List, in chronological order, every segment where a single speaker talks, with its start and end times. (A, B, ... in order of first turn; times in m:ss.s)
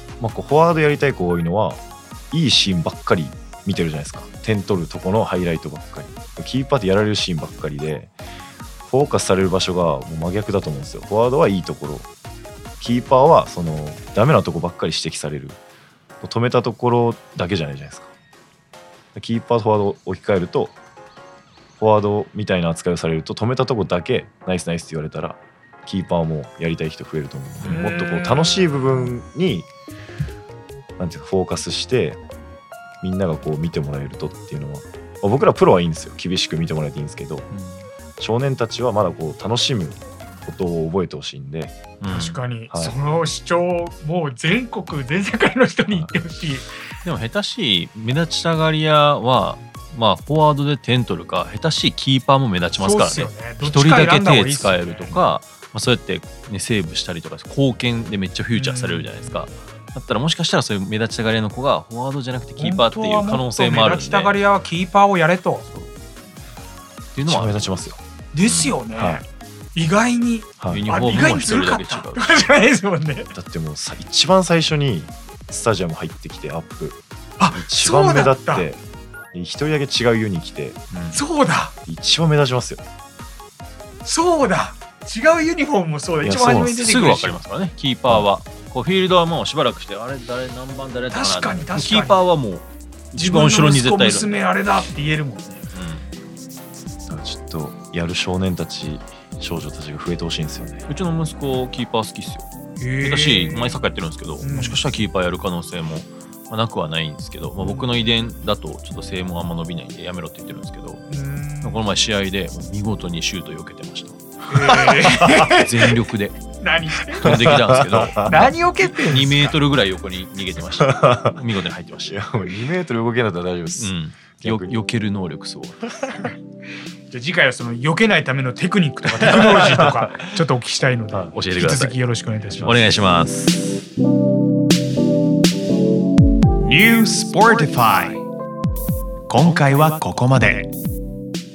0:00.2-0:01.8 A
0:02.3-0:08.1 A
0:08.9-0:12.1 A
0:12.8-0:15.6 A
0:16.2-0:18.1 A
0:19.2-0:20.7 A
0:21.8-0:29.7 A
0:27.6-0:29.1 B
0:31.0-0:32.2 A
0:33.0-0:37.5 A
0:37.5-0:37.9 C
0:38.2-0:41.8 A
0:42.0-0:42.4 C
0:42.1-0:46.7 B
0:47.0-1:04.4 C
0:52.8-0:55.2 B
0:58.5-0:59.5 B
1:02.6-1:05.7 B
1:05.7-1:05.9 C
1:07.2-1:08.8 C
1:07.3-1:08.0 A
1:08.3-1:13.3 B
1:09.0-1:09.2 A
1:10.6-1:10.9 A
1:10.7-1:12.4 C
1:13.3-1:18.8 A
1:17.4-1:18.7 B
1:19.3-1:20.8 A
1:20.9-1:21.2 C
1:21.1-1:21.7 B
1:21.8-1:22.8 A
1:24.0-1:27.4 B
1:26.2-1:26.8 A
1:26.8-1:34.3 C
1:31.1-1:32.2 B
1:33.2-1:35.6 B
1:35.7-1:36.1 C
1:37.1-1:40.8 A
1:40.9-1:51.0 C
1:42.8-1:43.8 B
1:44.4-1:44.8 B
1:51.1-1:51.8 B
1:51.6-1:54.2 C
1:54.5-1:55.9 B
1:55.2-1:56.4 C
1:55.2-1:55.5 A
1:56.6-1:57.6 B
1:57.2-2:02.2 C
1:57.2-1:58.5 A
1:58.2-1:59.5 B
2:00.7-2:01.4 A
2:02.0-2:04.8 A
2:03.8-2:05.8 C
2:07.1-2:12.7 B
2:09.2-2:10.0 C
2:11.1-2:11.4 A
2:11.3-2:12.0 C
2:12.4-2:12.9 A
2:12.6-2:13.8 C
2:16.6-2:18.2 D
2:19.3-2:20.7 D